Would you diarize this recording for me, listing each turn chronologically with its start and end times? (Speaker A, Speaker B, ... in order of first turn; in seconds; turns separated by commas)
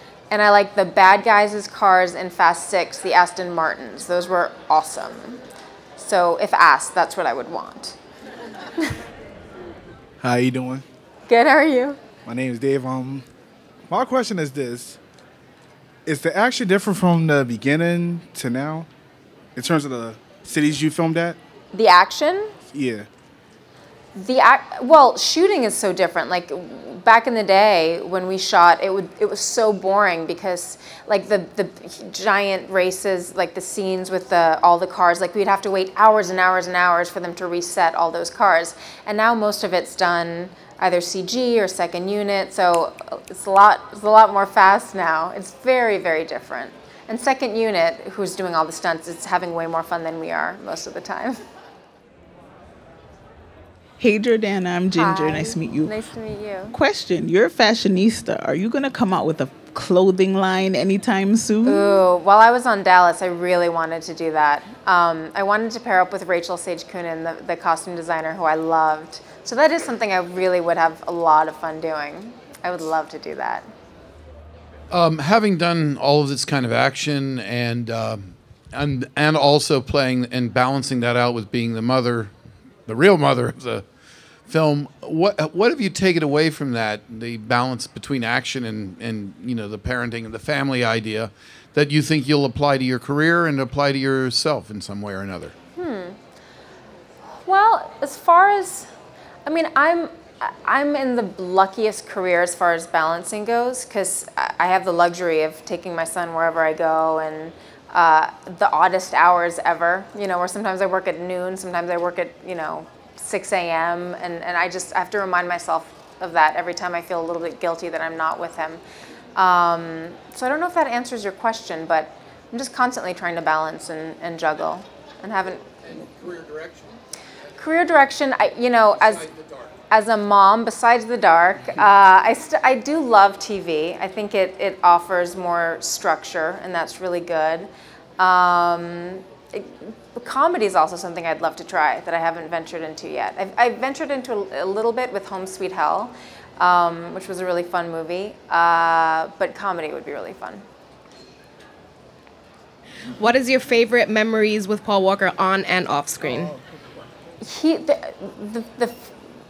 Speaker A: 0.3-5.4, Speaker A: 6.0-8.0, Speaker B: 10.2-10.8, Speaker A: 11.3-12.0, Speaker B: 12.3-13.2, Speaker B: 13.9-15.0, Speaker B: 16.1-18.9, Speaker B: 19.6-21.4, Speaker A: 21.7-22.5, Speaker B: 22.7-23.1, Speaker A: 24.1-51.4, Speaker C: 54.0-56.0, Speaker A: 54.9-56.8, Speaker C: 56.7-62.0, Speaker A: 61.6-73.7, Speaker D: 74.9-82.3, Speaker D: 82.9-83.8, Speaker D: 84.5-95.5, Speaker A: 95.8-96.2, Speaker A: 97.5-98.9, Speaker A: 99.5-118.8, Speaker A: 119.4-125.7, Speaker A: 127.6-129.3, Speaker A: 129.9-150.6, Speaker E: 153.2-156.6, Speaker A: 157.4-159.1